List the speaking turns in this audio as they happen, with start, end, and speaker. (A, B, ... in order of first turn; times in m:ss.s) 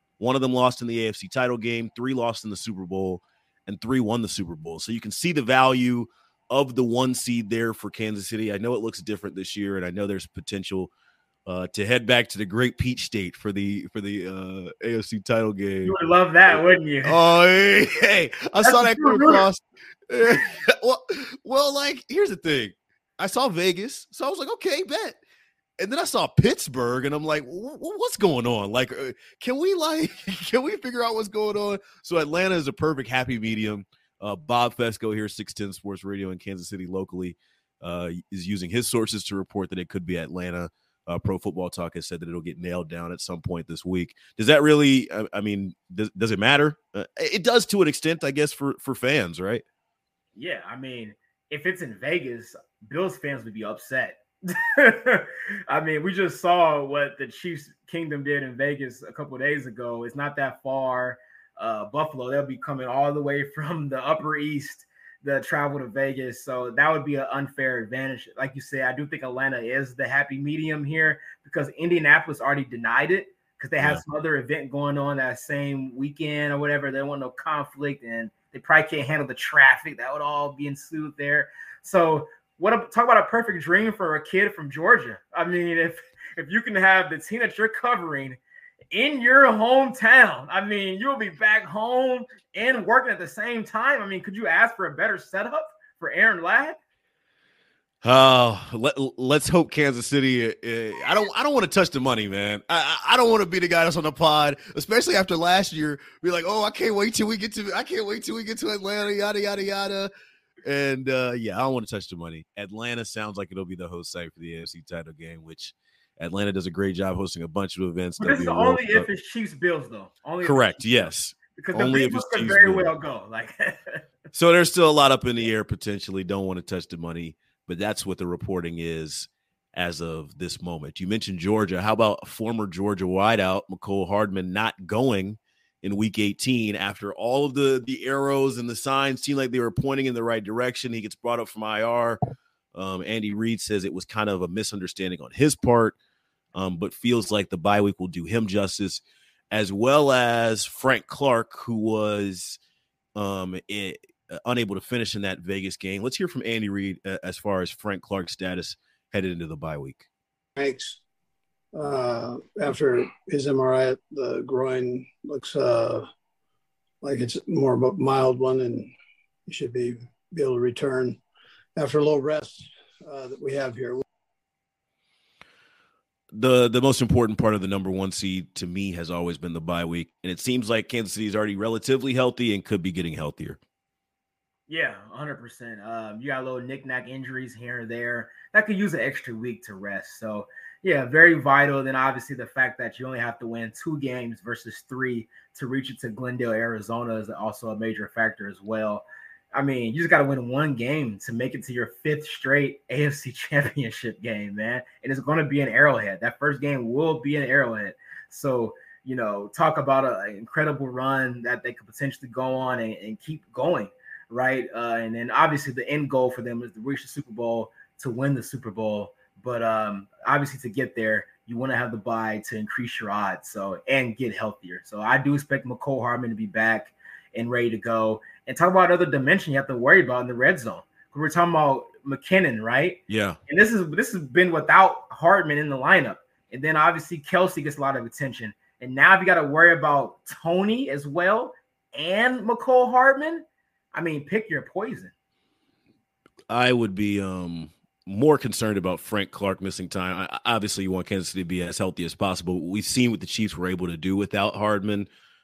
0:00.2-0:10.9 A
0:11.5-0:16.0 A
0:15.8-0:17.2 B
0:16.5-0:25.2 A
0:18.6-0:19.4 B
0:25.8-0:49.6 A
0:50.4-1:28.4 B
1:28.9-1:36.8 B
1:38.0-1:50.1 A
1:50.6-1:59.1 A
1:58.2-2:04.0 B
2:00.4-2:02.9 A
2:04.3-2:22.2 A
2:22.7-2:26.0 A
2:26.6-2:32.6 A
2:33.2-2:40.1 A
2:40.6-2:41.0 C
2:41.7-2:46.1 C
2:47.0-2:48.9 C
2:49.5-2:51.2 C
2:51.8-2:54.0 C
2:56.3-3:03.6 A
3:04.7-4:05.1 B
3:53.1-3:53.4 A
4:06.5-4:15.1 A